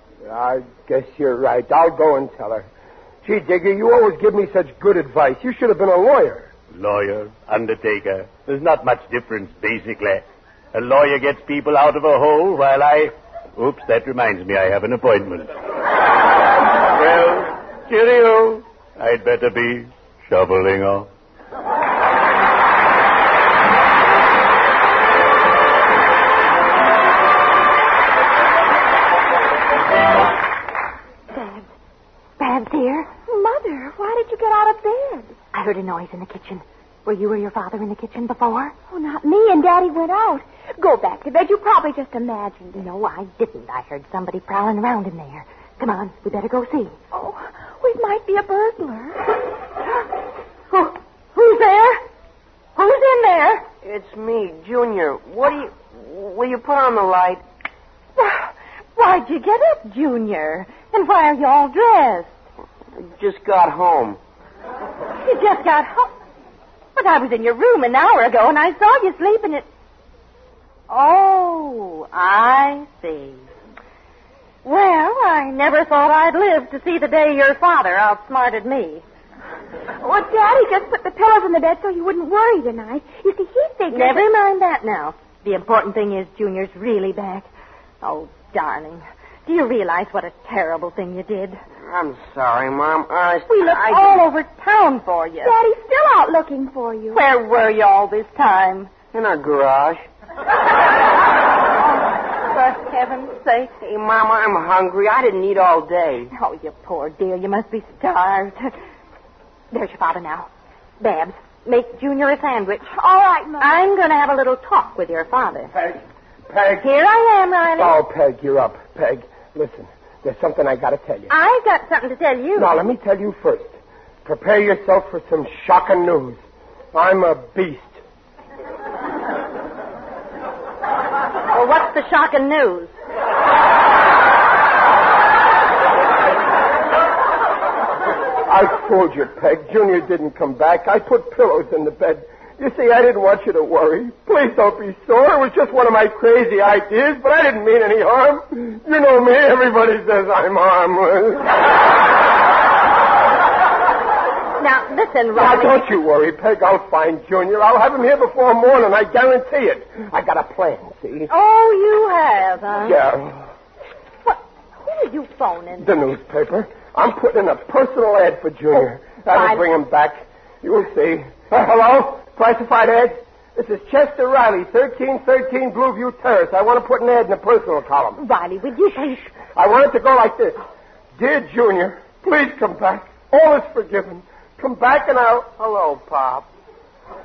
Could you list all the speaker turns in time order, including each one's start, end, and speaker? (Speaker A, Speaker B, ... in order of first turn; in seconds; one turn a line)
Speaker A: 0.2-2.7
Speaker A: 3.2-6.5
Speaker B: 6.7-10.2
Speaker B: 10.7-15.5
Speaker B: 17.0-21.1
Speaker C: 31.3-31.6
Speaker C: 32.4-33.1
Speaker D: 33.3-35.4
Speaker C: 35.5-38.8
Speaker D: 38.9-42.9
Speaker C: 42.7-47.0
Speaker D: 47.1-49.3
Speaker C: 50.7-52.0
Speaker C: 52.8-53.6
Speaker E: 53.8-57.4
Speaker C: 58.2-62.3
Speaker E: 63.0-64.2
Speaker C: 65.2-66.1
Speaker C: 67.0-69.7
Speaker C: 70.9-73.4
Speaker C: 74.6-79.0
Speaker D: 80.0-84.3
Speaker C: 83.9-87.5
Speaker C: 88.0-91.6
Speaker E: 91.9-94.2
Speaker C: 93.5-95.6
Speaker D: 95.4-97.2
Speaker C: 97.1-98.9
Speaker E: 99.1-100.1
Speaker C: 102.5-103.7
Speaker E: 103.8-106.3
Speaker C: 106.3-108.7
Speaker C: 109.7-110.5
Speaker C: 111.0-112.9
Speaker D: 112.9-113.8
Speaker C: 113.6-115.7
Speaker A: 115.7-116.9
Speaker C: 116.8-118.0
Speaker A: 117.8-121.3
Speaker C: 121.3-122.7
Speaker A: 122.5-126.4
Speaker A: 126.9-128.0
Speaker C: 131.5-132.9
Speaker A: 138.5-151.6
Speaker C: 154.6-156.0
Speaker A: 155.3-161.3
Speaker C: 161.3-163.0
Speaker A: 162.8-163.5
Speaker C: 164.2-165.9
Speaker A: 165.8-178.2
Speaker C: 169.3-169.6
Speaker C: 178.2-179.3
Speaker A: 179.4-180.6
Speaker A: 181.2-185.5
Speaker E: 185.6-186.5